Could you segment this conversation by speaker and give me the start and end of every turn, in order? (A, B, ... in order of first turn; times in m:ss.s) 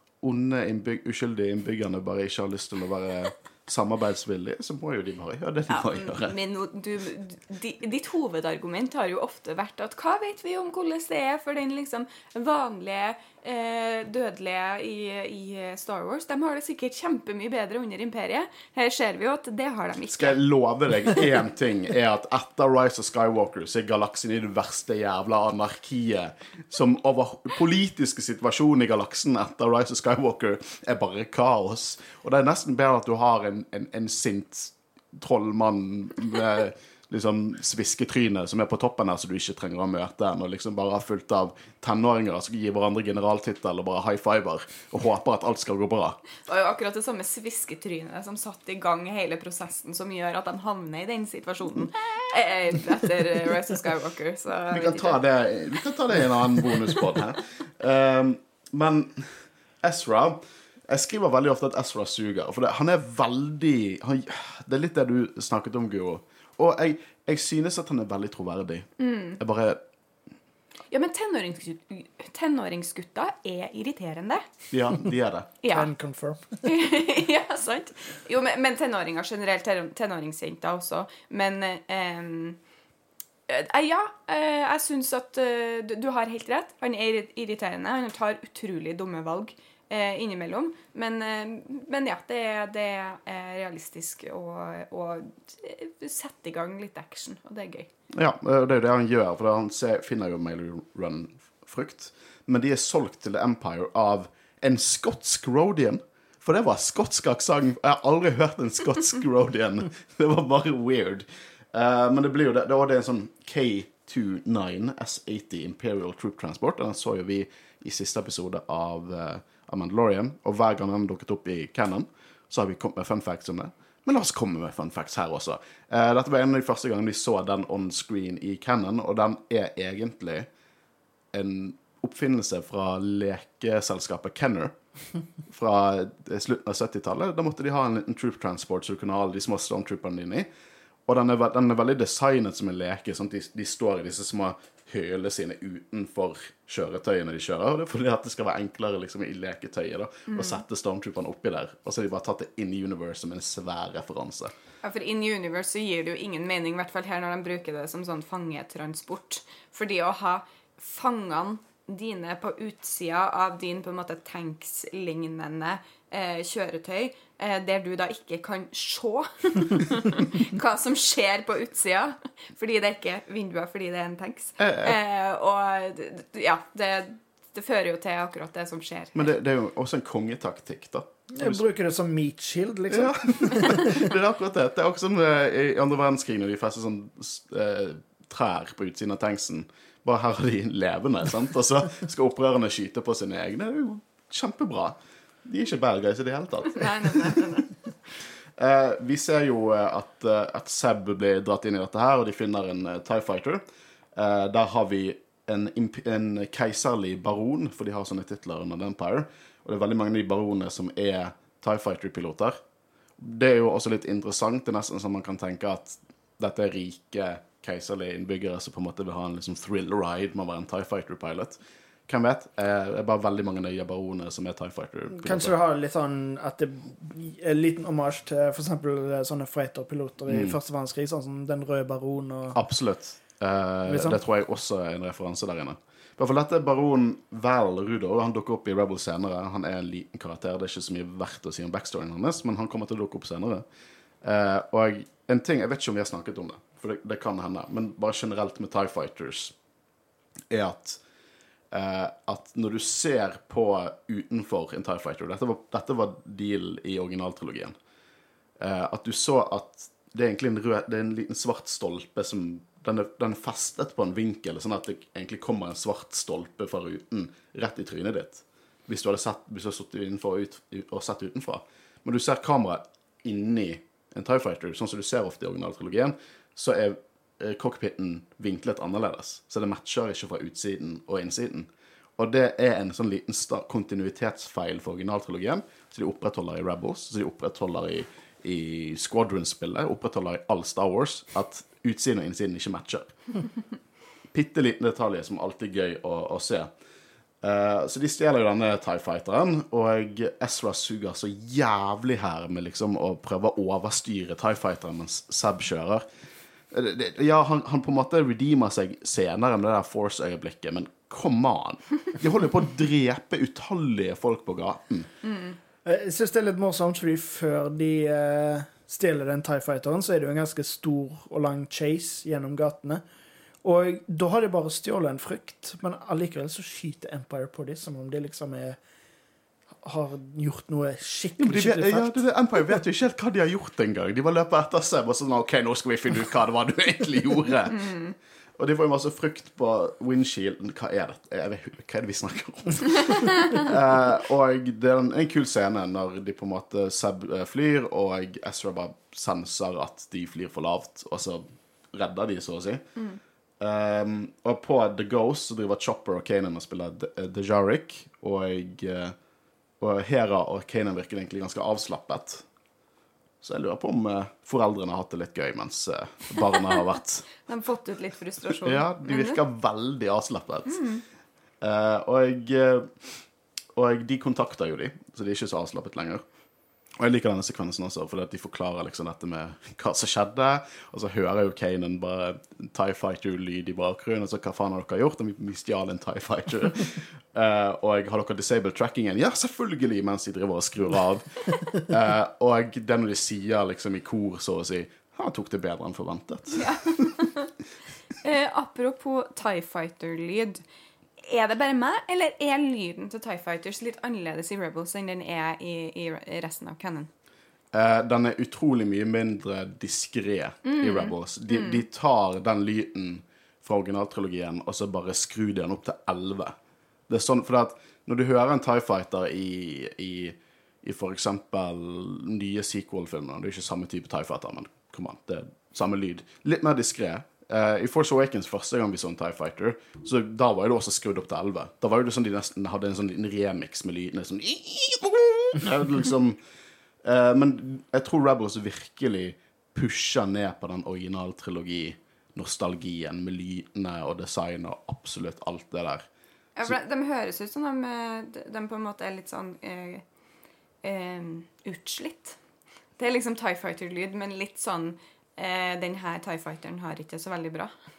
0:00.2-0:06.4 A
0:05.7-0:20.4 B
0:20.1-0:46.2 A
0:46.4-0:55.2 B
0:54.7-1:08.9 A
1:09.0-1:09.4 B
1:09.4-1:09.8 A
1:10.9-1:14.5 B
1:14.7-1:15.5 A
1:15.6-1:15.9 B
1:15.7-1:16.6 C
1:16.6-1:22.6 B
1:23.5-1:37.9 B
1:38.1-2:10.5 A
2:11.3-2:14.7 A
2:15.5-2:20.5 A
2:21.0-2:34.5 A
2:30.3-2:30.6 B
2:34.8-2:59.2 B
2:54.6-2:55.0 A
2:59.1-3:01.6 A
3:01.3-3:04.0 C
3:02.9-3:17.4 A
3:16.7-3:17.7 B
3:18.6-3:23.6 A
3:24.1-3:32.6 A
3:33.2-3:45.5 A
3:45.1-3:52.6 C
3:50.3-3:50.6 A
3:52.5-4:03.6 A
3:53.8-3:54.2 C
4:04.2-4:09.5 A
4:10.5-4:11.0 A
4:11.7-4:17.7 A
4:18.6-4:53.1 A
4:54.3-4:56.7 A
4:57.4-5:06.0 A
5:06.7-5:15.1 A
5:15.2-5:15.6 B
5:15.8-5:23.0 C
5:23.6-5:28.8 C
5:29.8-5:32.8 C
5:31.4-5:37.9 A
5:37.8-5:38.1 B
5:38.6-5:52.8 A
5:53.6-5:59.1 A
5:59.8-6:02.4 A
6:03.4-6:07.3 A
6:07.4-6:09.4 B
6:08.6-6:10.8 A
6:10.7-6:11.0 B
6:11.6-6:13.2 A
6:13.7-6:16.2 A
6:17.0-6:37.1 A
6:36.6-6:37.5 B
6:38.2-6:40.6 B
6:41.2-6:47.1 B
6:47.7-6:56.6 A
6:50.6-6:51.8 B
6:57.1-7:16.4 A
7:17.0-7:26.1 A
7:26.6-7:30.0 B
7:30.8-7:32.4 B
7:33.0-7:37.7 B